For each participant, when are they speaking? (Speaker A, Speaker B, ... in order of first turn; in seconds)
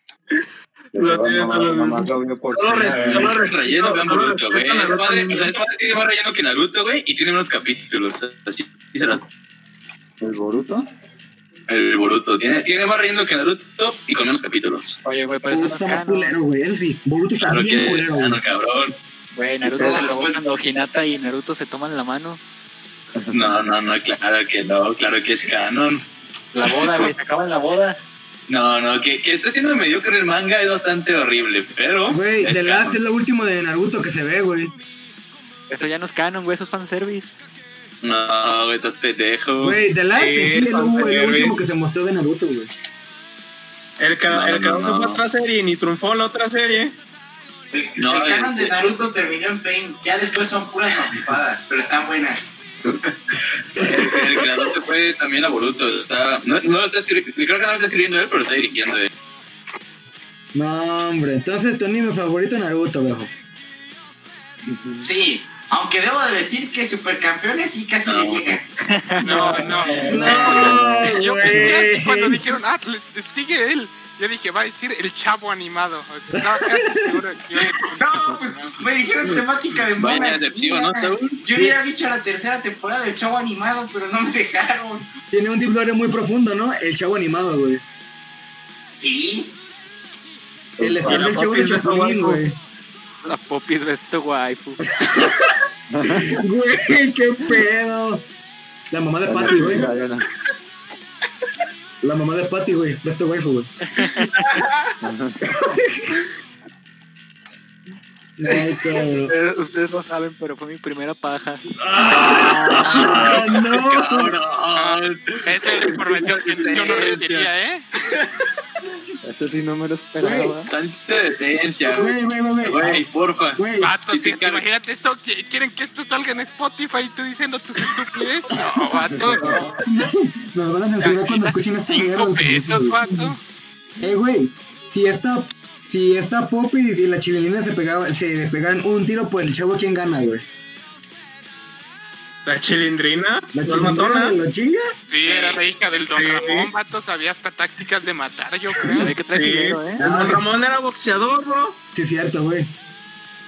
Speaker A: 0.9-3.4, 10.2-10.9, 19.8-20.0, 64.8-65.1, 70.1-71.7, 90.8-91.3, 95.9-96.4, 99.2-100.3, 105.0-105.7, 119.2-120.7, 129.2-129.7
Speaker B: 0.9-5.5, 40.1-41.6, 44.0-47.0, 91.0-92.4, 142.5-144.4, 146.2-146.7, 149.1-151.8
Speaker C: 2.9-9.3, 11.7-15.0, 17.4-19.0, 23.3-26.0, 28.5-33.0, 38.0-39.8, 44.3-45.2, 48.0-48.8, 53.7-59.1, 68.0-68.6, 80.0-81.5, 111.9-117.5, 120.7-124.6
Speaker D: 15.1-16.4, 19.3-22.4, 26.5-28.0, 35.7-37.4, 68.8-69.6, 93.2-94.8, 104.0-104.3, 109.0-113.1, 149.0-150.0
Speaker E: 15.5-18.4, 32.1-34.7, 39.6-42.7, 60.5-63.3, 70.0-72.4, 76.3-77.2, 85.3-87.8, 90.8-92.6, 94.9-98.2, 98.9-99.9, 102.0-103.7, 105.5-106.1, 108.4-109.3, 111.8-114.3, 120.2-120.5, 121.9-123.0, 123.6-124.0, 129.8-133.3, 134.0-140.4, 143.5-144.9, 150.0-150.5, 151.9-152.7
Speaker F: 19.8-20.4, 47.7-52.6, 65.0-68.6, 77.8-85.1, 89.0-89.5, 145.2-145.6
Speaker G: 69.2-78.8, 104.4-104.9, 114.8-117.8, 123.8-129.8, 131.0-133.4, 145.1-149.2